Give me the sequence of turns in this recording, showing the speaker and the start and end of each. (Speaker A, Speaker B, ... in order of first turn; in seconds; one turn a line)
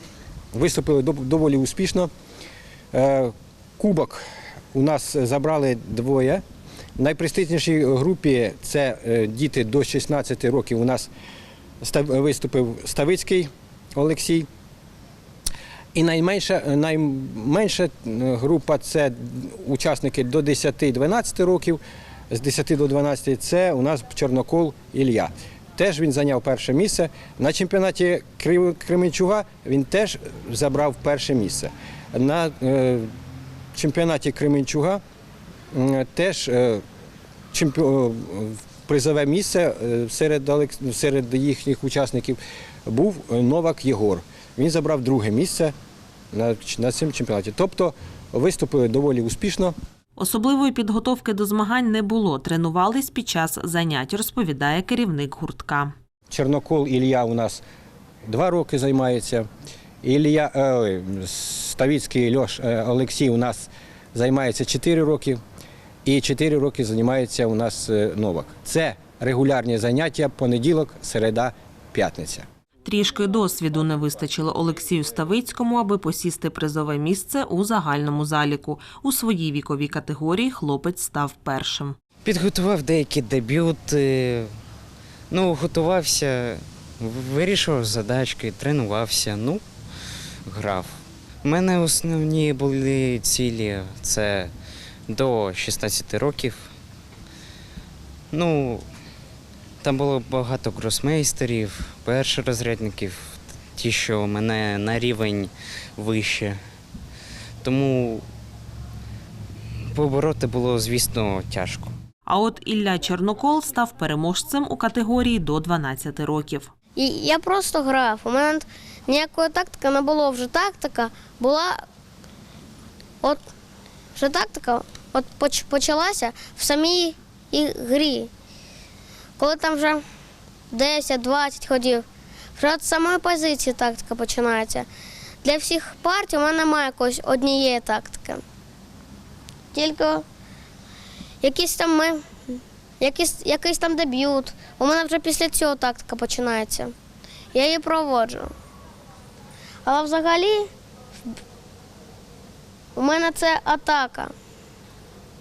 Speaker A: 0.5-2.1
Speaker A: 2.9-6.4
Speaker A: 7.0-11.1
Speaker A: 11.8-14.5
Speaker A: 15.9-33.1
Speaker A: 33.7-35.0
Speaker A: 35.7-36.8
Speaker A: 37.5-45.7
Speaker A: 46.3-49.7
Speaker B: 50.2-55.9
Speaker A: 56.3-57.6
Speaker A: 58.2-59.5
Speaker A: 60.0-65.4
Speaker A: 66.0-72.5
Speaker B: 72.8-82.0
Speaker C: 82.2-84.5
Speaker C: 85.3-89.6
Speaker C: 90.5-94.5
Speaker C: 95.1-96.7
Speaker C: 98.3-98.8
Speaker C: 99.8-106.6
Speaker C: 107.6-108.2
Speaker C: 109.9-111.9
Speaker B: 112.2-116.7
Speaker D: 117.0-121.8
Speaker D: 124.2-128.3
Speaker D: 129.4-130.0
Speaker D: 130.7-132.1
Speaker D: 132.6-134.9
Speaker D: 135.4-138.4
Speaker D: 139.7-140.2
Speaker D: 141.4-146.9
Speaker D: 147.5-148.5
Speaker D: 149.8-150.7
Speaker D: 152.9-154.3